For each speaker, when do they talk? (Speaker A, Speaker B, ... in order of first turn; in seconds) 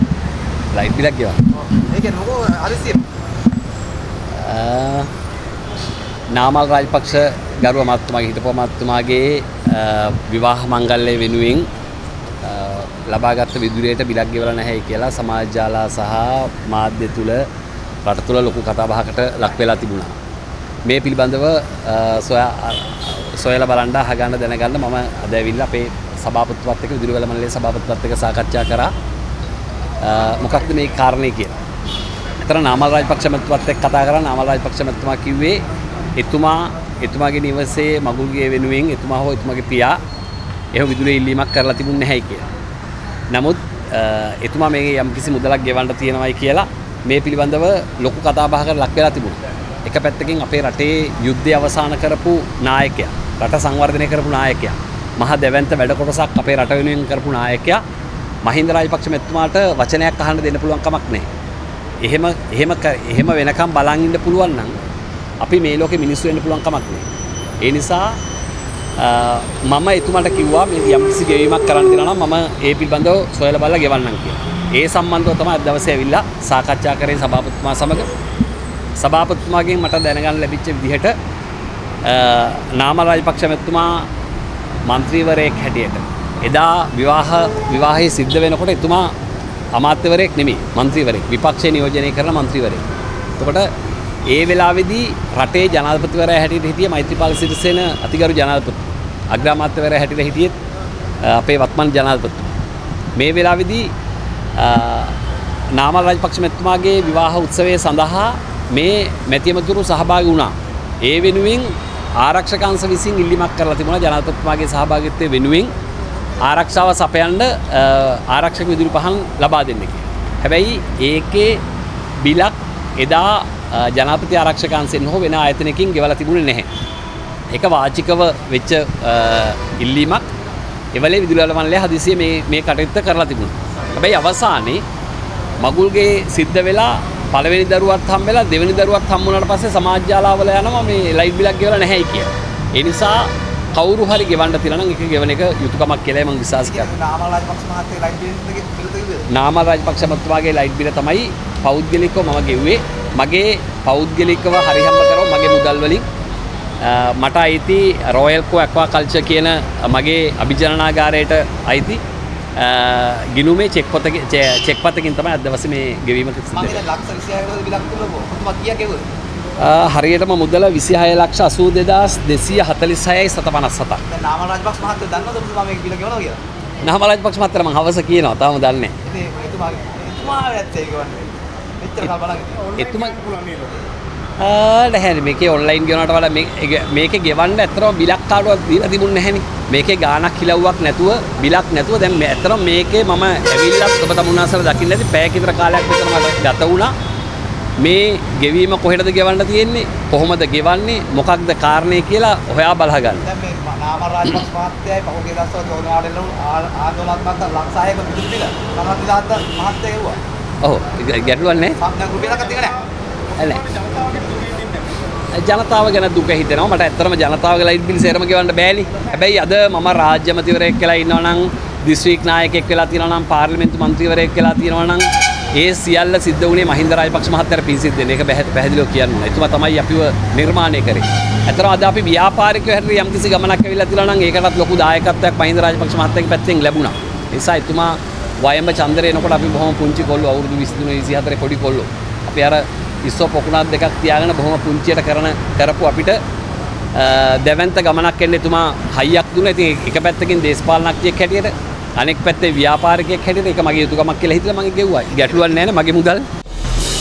Speaker A: 0.7-1.4, 4.3-5.1, 6.3-11.7, 12.4-17.5, 18.0-20.1, 20.8-28.9, 30.0-31.5, 32.4-35.6, 36.1-40.0, 40.7-42.5, 43.3-57.8, 58.4-61.3, 62.0-64.7, 65.4-67.1, 67.6-68.2, 69.0-78.1, 79.0-81.1, 82.0-84.1, 84.8-89.1, 89.7-92.8, 93.4-93.7, 94.2-100.6, 101.2-102.5, 103.2-103.9, 104.5-105.2, 105.7-115.7, 116.4-121.6, 122.2-126.7, 127.5-130.3, 130.9-134.8, 135.6-146.9, 149.3-156.0, 156.8-162.0, 162.6-166.8, 169.6-174.0, 176.8-178.9, 182.7-183.3, 184.4-196.9, 197.8-203.2, 210.6-211.8, 213.3-213.7, 215.3-246.2, 246.9-256.2
Speaker B: 1.7-3.0, 146.6-149.2, 166.5-169.1, 174.1-176.4, 179.1-182.7, 203.2-210.2, 211.8-212.8